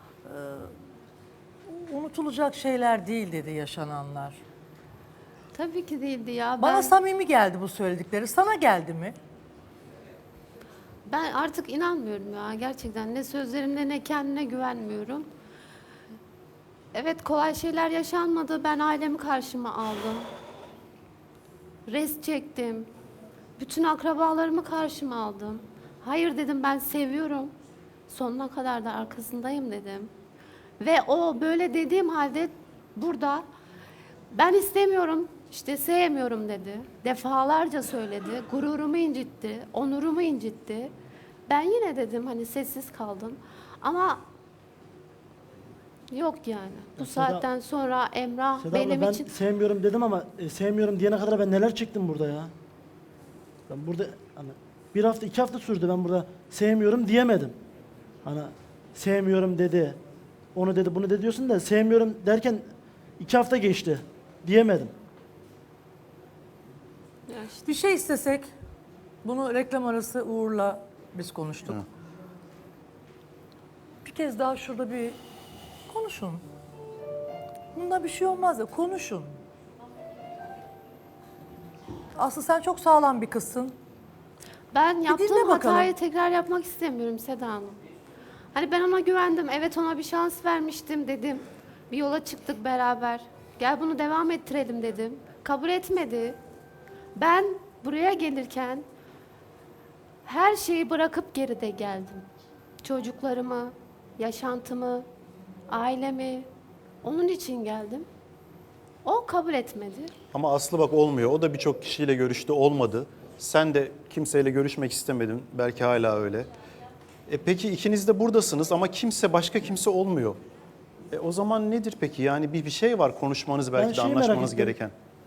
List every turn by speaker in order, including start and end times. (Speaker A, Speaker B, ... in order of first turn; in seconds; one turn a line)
Speaker A: 0.2-0.7
Speaker A: 1.7-4.4
Speaker B: 5.5-7.0
Speaker A: 6.6-9.2
Speaker B: 11.1-15.3
Speaker B: 16.9-20.3
Speaker B: 21.9-22.9
Speaker B: 23.6-27.5
Speaker B: 28.1-30.1
Speaker B: 30.8-33.4
Speaker B: 34.3-40.9
Speaker B: 41.5-44.2
Speaker B: 46.1-49.4
Speaker C: 47.0-47.5
Speaker C: 48.6-52.5
Speaker C: 53.7-57.5
Speaker C: 58.2-60.0
Speaker C: 60.5-62.6
Speaker C: 63.2-64.9
Speaker B: 67.3-67.7
Speaker A: 67.6-68.5
Speaker A: 69.2-71.8
Speaker A: 74.0-75.2
Speaker A: 75.9-76.4
Speaker A: 77.7-79.3
Speaker A: 82.2-83.8
Speaker B: 84.7-87.8
Speaker A: 85.1-85.9
Speaker B: 88.5-96.4
Speaker B: 97.1-98.8
Speaker B: 100.2-102.2
Speaker B: 102.8-105.0
Speaker B: 105.7-106.5
Speaker B: 107.0-108.0
Speaker B: 109.0-110.1
Speaker D: 110.3-116.5
Speaker D: 117.3-120.4
Speaker D: 121.1-124.9
Speaker C: 123.7-124.8